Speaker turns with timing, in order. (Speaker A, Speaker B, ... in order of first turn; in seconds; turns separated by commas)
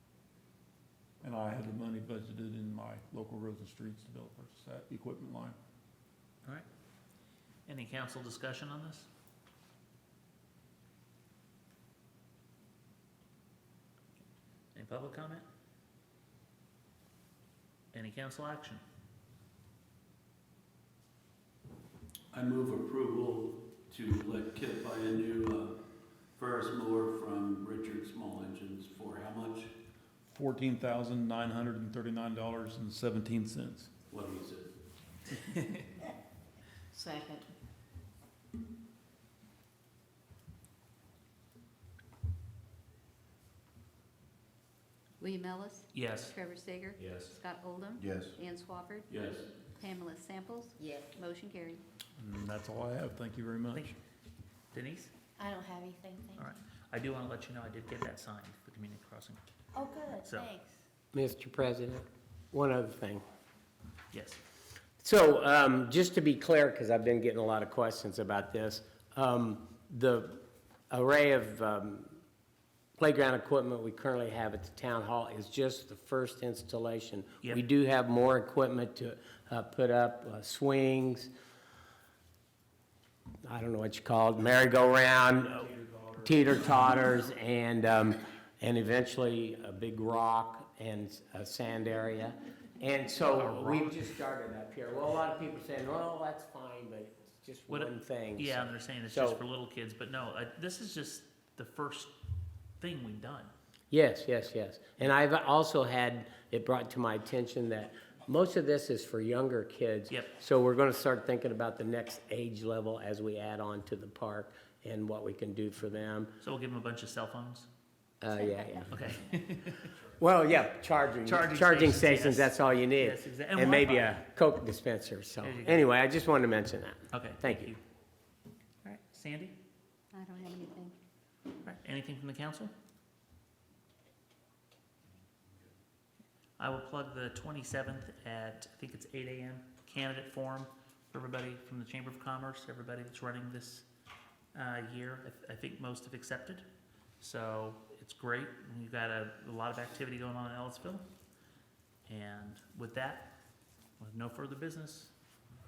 Speaker A: 1.2-5.6, Speaker B: 7.7-9.1, Speaker B: 14.7-15.4, Speaker B: 17.9-18.8, Speaker C: 22.3-25.7, Speaker C: 26.4-29.7, Speaker A: 30.2-33.9, Speaker C: 34.1-34.7, Speaker D: 36.9-37.5, Speaker E: 45.2-49.1, Speaker B: 45.9-46.3, Speaker C: 47.0-47.3, Speaker C: 48.1-48.3, Speaker C: 49.1-49.5, Speaker E: 49.7-51.8, Speaker D: 50.8-51.1, Speaker A: 52.2-53.9, Speaker B: 54.7-55.1, Speaker D: 55.4-56.5, Speaker B: 56.3-59.4, Speaker D: 59.7-60.7, Speaker B: 60.1-60.5, Speaker F: 61.1-63.2, Speaker B: 64.1-64.4, Speaker F: 65.0-72.2, Speaker F: 73.0-81.3, Speaker F: 83.4-85.7, Speaker A: 85.0-86.8, Speaker F: 86.2-99.4, Speaker B: 93.3-94.0, Speaker B: 97.7-102.1, Speaker B: 102.8-103.5, Speaker F: 103.9-116.3, Speaker B: 116.4-117.7, Speaker F: 118.2-119.0, Speaker B: 118.9-120.0, Speaker F: 120.1-127.7, Speaker B: 121.2-124.2, Speaker B: 125.4-125.9, Speaker B: 127.1-127.8, Speaker B: 128.8-129.5, Speaker E: 130.1-130.9, Speaker B: 131.6-132.7, Speaker B: 136.6-143.8, Speaker B: 144.5-146.6, Speaker B: 147.2-151.0, Speaker B: 152.1-153.3, Speaker B: 154.0-155.1